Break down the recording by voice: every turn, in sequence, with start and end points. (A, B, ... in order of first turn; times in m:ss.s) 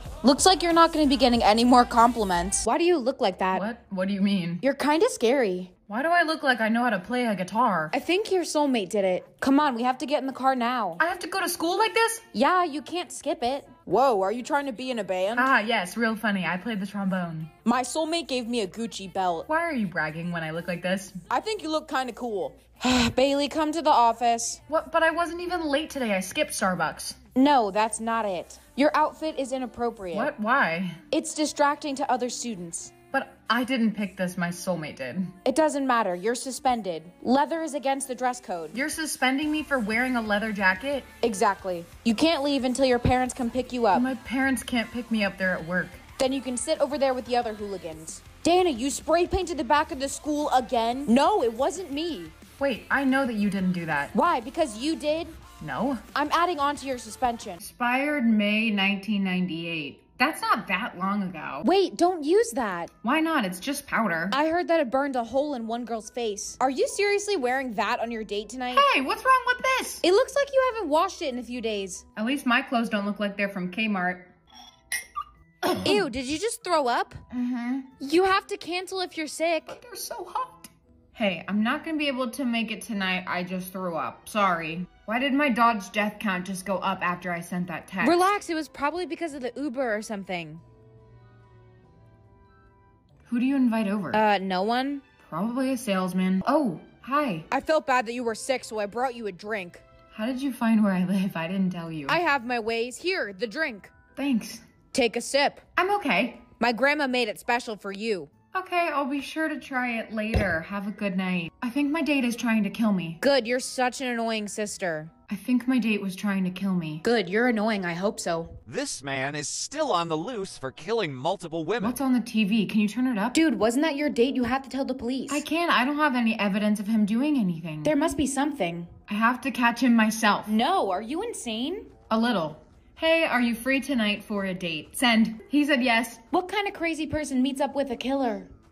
0:00.2-0:03.6 A
0:03.5-0:04.6 B
0:04.6-0:05.7 A
0:05.9-0:07.9 B
0:07.9-0:11.0 A
0:11.0-0:12.2 B
0:12.3-0:15.5 A
0:15.4-0:17.5 B
0:17.6-0:19.5 A
0:19.5-0:21.2 B
0:21.3-0:24.6 A
0:24.7-0:27.2 B
0:27.4-0:30.3 A
0:30.1-0:31.0 B
0:31.1-0:32.9 A
0:33.1-0:35.4 B
0:35.4-0:38.8 A
0:38.7-0:41.1 B
0:41.2-0:44.1 A
0:43.9-0:46.0 B
0:46.2-0:52.3 A
0:52.6-0:54.1 B
0:54.1-0:55.4 A
0:55.6-0:56.0 B
0:56.2-0:57.6 A
0:57.6-1:01.7 B
1:01.6-1:02.9 A
1:03.0-1:04.4 B
1:04.3-1:08.9 A
1:08.7-1:10.0 B
1:10.0-1:12.0 A
1:12.2-1:14.3 B
1:15.6-1:16.1 B
1:15.8-1:17.2 A
1:17.3-1:17.9 B
1:18.0-1:19.8 A
1:19.7-1:28.3 B
1:28.0-1:30.6 A
1:33.3-1:34.2 B
1:34.1-1:35.0 A
1:35.2-1:37.5 B
1:37.5-1:39.8 A
1:40.1-1:42.2 B
1:42.1-1:43.9 A
1:44.2-1:44.6 B
1:44.9-1:45.6 A
1:45.8-1:46.4 B
1:46.6-1:48.3 A
1:48.5-1:53.2 B
1:53.2-1:55.1 A
1:55.3-1:57.0 B
1:57.0-1:58.6 A
1:58.7-2:02.0 C
2:01.8-2:03.4 B
2:03.3-2:05.4 A
2:05.3-2:07.9 B
2:07.8-2:08.9 A
2:09.1-2:10.5 B
2:10.5-2:11.9 A
2:12.1-2:16.2 B
2:16.3-2:18.5 A